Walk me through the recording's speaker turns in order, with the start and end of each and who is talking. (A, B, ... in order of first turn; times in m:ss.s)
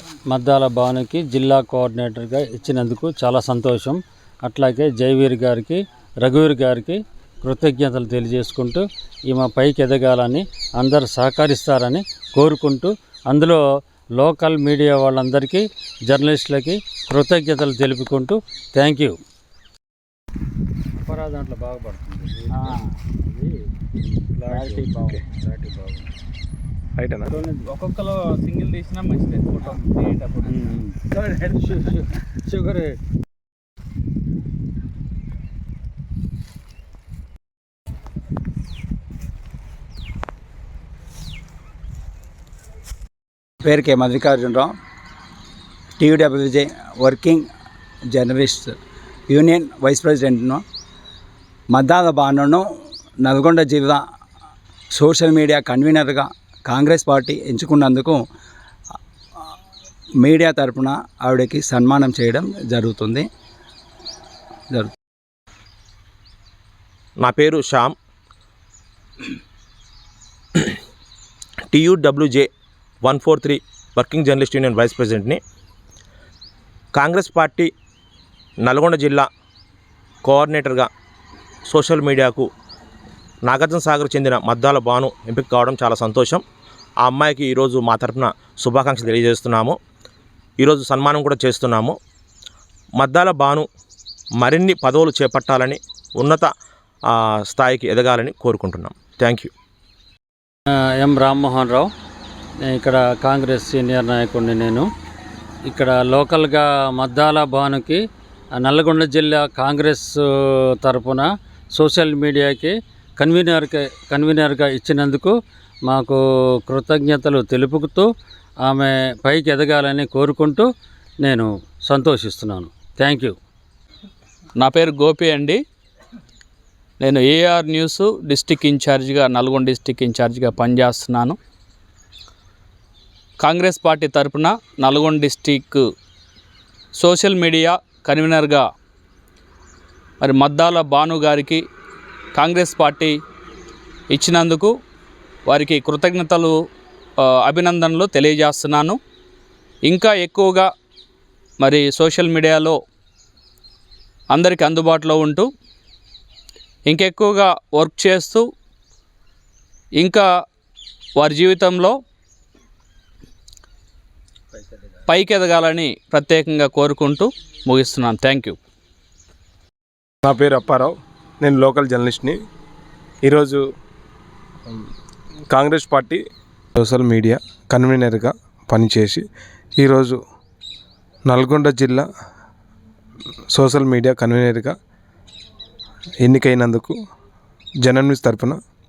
0:00.3-0:13.6 A
0:14.2-0:19.2 A
0:21.1-0:22.8 A
0:22.5-0:22.8 B
0:24.2-0:26.0 A
0:24.5-0:25.2 B
0:27.0-0:27.3 C
0:27.3-0:27.6 A
0:27.6-0:30.8 B
0:30.7-0:33.0 A
0:43.6-0:44.7 D
0:46.0-0:47.5 D
0:48.1-0:48.7 D
0:49.3-0:50.6 D
0:51.7-0:52.7 D
0:53.2-0:54.0 D
0:54.9-0:58.2 D
1:00.2-1:03.3 D
1:07.2-1:07.9 E
1:11.7-1:12.5 E
1:13.0-1:15.4 E
1:17.0-1:17.7 E
1:18.6-1:19.3 E
1:20.2-1:20.9 E
1:21.7-1:22.5 E
1:23.4-1:26.4 E
1:27.0-1:29.8 E
1:30.6-1:32.0 E
1:33.0-1:33.7 E
1:34.4-1:36.5 E
1:37.1-1:39.5 E
1:41.0-1:41.9 A
1:42.7-1:44.9 A
1:45.7-1:48.0 A
1:48.6-1:55.4 A
1:55.9-1:58.1 A
1:58.6-2:00.7 A
2:01.2-2:03.4 A
2:04.6-2:05.6 B
2:07.0-2:11.4 B
2:13.4-2:15.9 B
2:17.0-2:18.7 B
2:20.2-2:21.6 B
2:22.4-2:23.2 B
2:24.1-2:24.7 B
2:25.5-2:26.6 B
2:27.2-2:29.0 B
2:29.9-2:30.7 B
2:31.6-2:32.8 B
2:34.3-2:35.5 B
2:36.9-2:38.5 B
2:40.0-2:40.3 B
2:41.2-2:42.0 B
2:45.1-2:48.6 B
2:50.2-2:52.4 C
2:53.2-2:53.6 C
2:55.5-2:56.2 C
2:56.8-2:59.2 C
2:59.8-3:00.2 C
3:01.3-3:02.1 C
3:03.5-3:04.7 C
3:06.2-3:07.0 C
3:07.8-3:08.6 C